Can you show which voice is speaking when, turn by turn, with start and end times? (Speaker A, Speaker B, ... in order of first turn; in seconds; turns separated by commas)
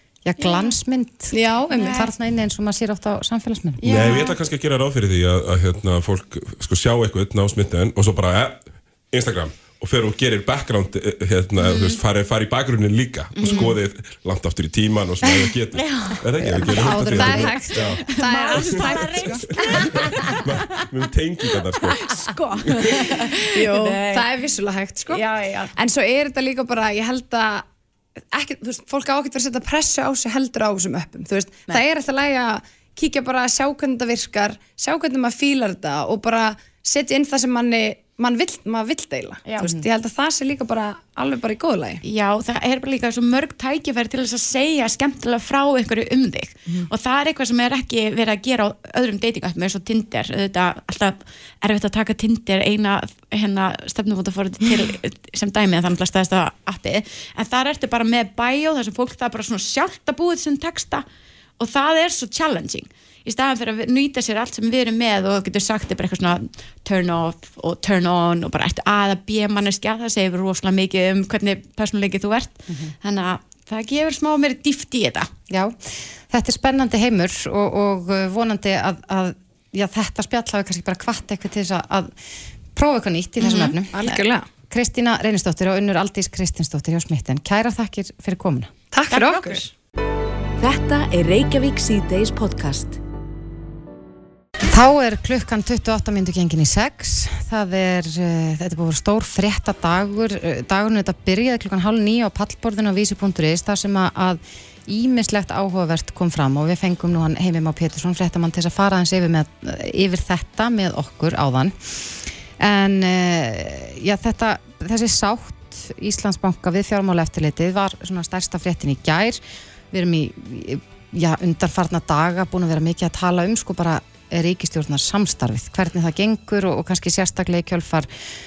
Speaker A: 0.2-1.4, Speaker B: 0.4-0.7, Speaker C: 1.3-2.0, Speaker B: 1.7-2.1, Speaker A: 1.9-3.9, Speaker C: 3.8-4.3, Speaker B: 3.9-4.3, Speaker D: 3.9-18.0, Speaker B: 11.6-12.0, Speaker B: 13.4-13.8, Speaker B: 15.8-20.8, Speaker C: 16.7-20.4, Speaker A: 16.8-17.7, Speaker D: 20.2-22.0, Speaker B: 22.2-24.4, Speaker C: 22.3-25.2, Speaker B: 25.1-25.8, Speaker C: 25.8-27.7, Speaker C: 28.3-42.0, Speaker B: 39.5-39.7, Speaker B: 42.0-61.1, Speaker B: 61.6-75.3, Speaker A: 75.5-82.1, Speaker A: 82.8-88.7, Speaker C: 83.5-84.5, Speaker C: 88.9-89.7, Speaker B: 89.1-89.7, Speaker E: 90.6-93.0, Speaker A: 94.7-112.0, Speaker A: 112.6-128.1